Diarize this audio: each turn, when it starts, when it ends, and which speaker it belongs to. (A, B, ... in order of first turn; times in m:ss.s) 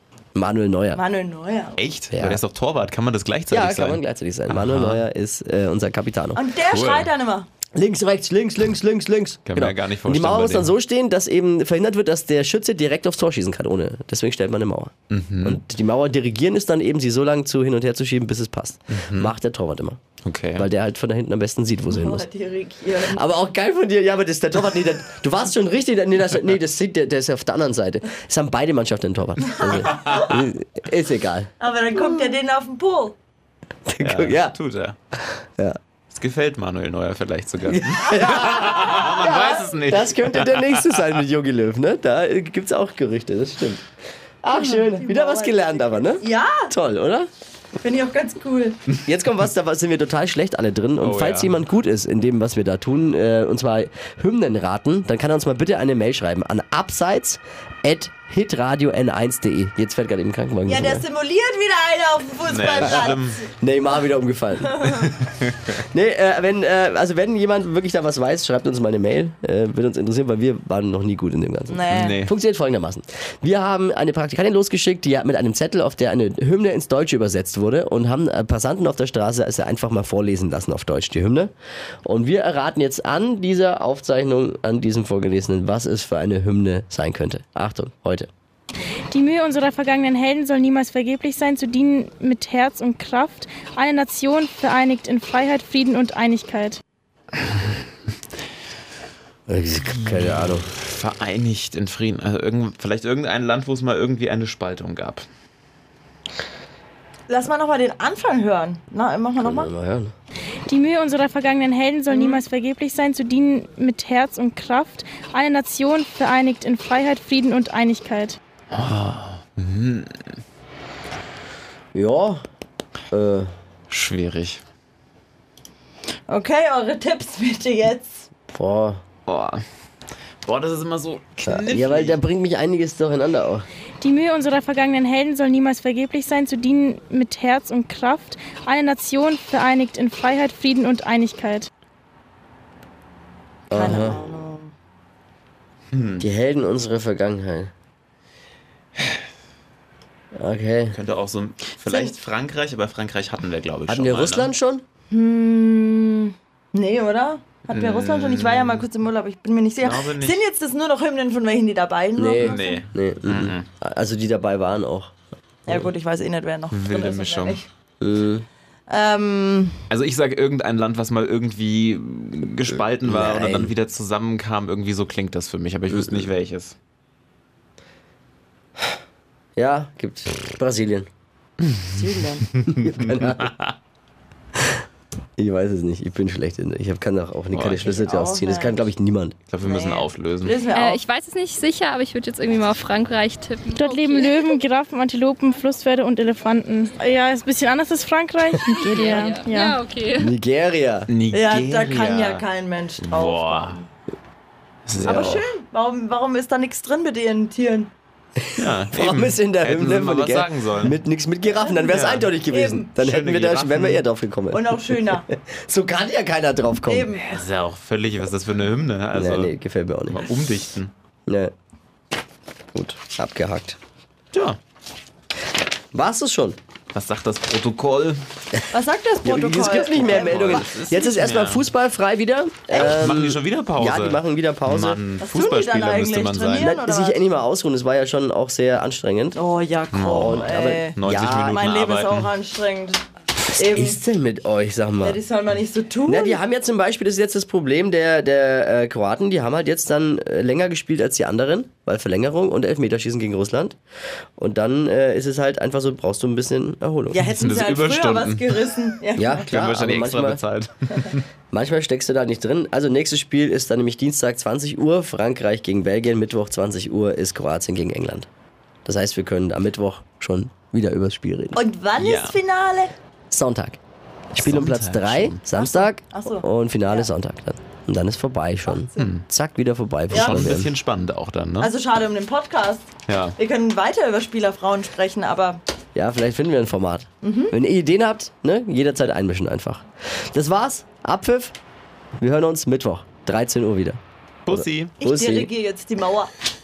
0:00.4-0:01.0 A
0:01.0-0:01.8 B
0:01.8-0:05.0 C
0:02.1-0:02.4 A
0:03.5-0:06.4 A
0:06.4-0:07.5 B
0:06.7-0:07.1 C
0:07.8-0:20.0 A
0:09.5-0:10.7 C
0:15.1-0:15.6 C
0:18.9-0:19.3 C
0:20.2-0:20.7 C
0:20.6-0:22.2 A
0:21.9-0:23.2 B
0:23.0-0:32.2 A
0:29.4-0:30.4 B
0:29.8-0:30.2 C
0:31.6-0:33.2 B
0:33.9-0:34.6 A
0:34.0-0:35.0 C
0:36.1-0:41.2 C
0:37.7-0:43.8 A
0:38.2-0:39.0 B
0:44.4-0:47.3 A
0:44.5-0:46.7 B
0:47.8-0:48.8 B
0:49.0-1:01.0 A
0:51.0-0:51.6 C
1:00.7-1:03.4 B
1:02.5-1:03.4 C
1:03.6-1:04.9 A
1:04.6-1:05.1 B
1:05.0-1:05.7 C
1:05.8-1:21.5 A
1:11.7-1:12.2 B
1:11.9-1:12.3 C
1:22.0-1:28.3 A
1:29.1-1:36.8 D
1:39.5-1:40.7 A
1:39.8-1:45.2 C
1:47.3-1:49.7 B
1:49.4-1:50.1 A
1:50.7-1:58.4 D
1:52.1-1:52.4 B
1:58.7-2:00.1 C
2:01.9-2:02.4 A
2:03.1-2:03.5 A
2:03.9-2:04.6 C
2:06.3-2:08.3 B
2:08.5-2:09.0 A
2:09.3-2:09.6 C
2:10.4-2:12.2 C
2:11.4-2:13.6 A
2:14.0-2:21.7 D
2:23.7-2:24.2 A
2:23.7-2:24.7 B
2:25.9-2:26.3 C
2:26.2-2:27.7 A
2:30.4-2:31.0 A
2:30.9-2:34.5 C
2:31.8-2:32.1 B
2:33.9-2:34.8 A
2:35.1-2:42.8 B
2:37.7-2:38.9 C
2:39.8-2:40.4 C
2:42.2-2:45.2 A
2:42.4-2:43.7 C
2:45.7-2:47.6 B
2:46.7-2:47.6 C
2:48.0-2:48.5 A
2:48.9-2:49.8 B
2:49.9-2:56.8 C
2:53.0-2:53.7 A
2:55.9-2:56.3 A
2:59.6-3:01.1 A
3:01.8-3:02.5 B
3:02.6-3:03.6 C
3:02.6-3:03.6 A
3:05.4-3:09.4 A
3:07.5-3:08.0 C
3:07.9-3:08.8 B
3:09.5-3:10.6 C
3:09.6-3:11.0 B
3:10.7-3:14.6 E
3:13.7-3:19.8 D
3:18.7-3:20.3 E
3:20.2-3:21.1 A
3:21.1-3:22.5 C
3:21.3-3:23.8 B
3:23.0-3:23.8 C
3:24.9-3:25.5 C
3:25.0-3:27.9 B
3:25.1-3:25.4 A
3:28.5-3:37.1 A
3:28.6-3:31.0 C
3:31.5-3:32.9 B
3:31.8-3:32.4 C
3:33.0-3:34.0 C
3:34.5-3:35.3 B
3:36.9-3:37.4 B
3:37.2-3:39.6 C
3:39.1-3:40.2 A
3:40.1-3:40.9 C
3:41.3-3:41.5 A
3:42.7-3:43.8 A
3:44.3-3:44.6 C
3:45.9-3:46.6 A
3:46.9-3:48.2 C
3:48.7-3:50.8 B
3:49.2-3:55.0 A
3:50.0-3:51.7 C
3:52.7-3:56.8 C
3:55.2-3:57.3 B
3:56.6-3:59.4 A
3:59.4-4:03.0 B
3:59.9-4:02.3 C
4:00.1-4:01.6 A
4:03.5-4:05.2 A
4:03.6-4:04.0 B
4:05.0-4:06.4 B
4:06.1-4:13.8 A
4:14.4-4:17.2 A
4:17.1-4:19.5 B
4:17.2-4:18.7 C
4:19.2-4:20.4 A
4:19.5-4:21.3 C
4:21.5-4:28.3 A
4:28.8-4:31.6 A
4:31.6-4:32.9 B
4:32.0-4:32.4 C
4:33.3-4:33.8 A
4:34.3-4:40.7 A
4:34.4-4:35.4 C
4:35.5-4:37.1 B
4:38.7-4:39.1 B
4:39.0-4:39.2 C
4:40.1-4:41.7 C
4:40.1-4:40.5 B
4:41.6-4:45.6 B
4:43.1-4:43.4 C
4:46.0-4:51.6 A
4:47.2-4:47.5 B
4:52.2-4:55.5 A
4:54.5-4:55.0 C
4:55.0-4:56.3 B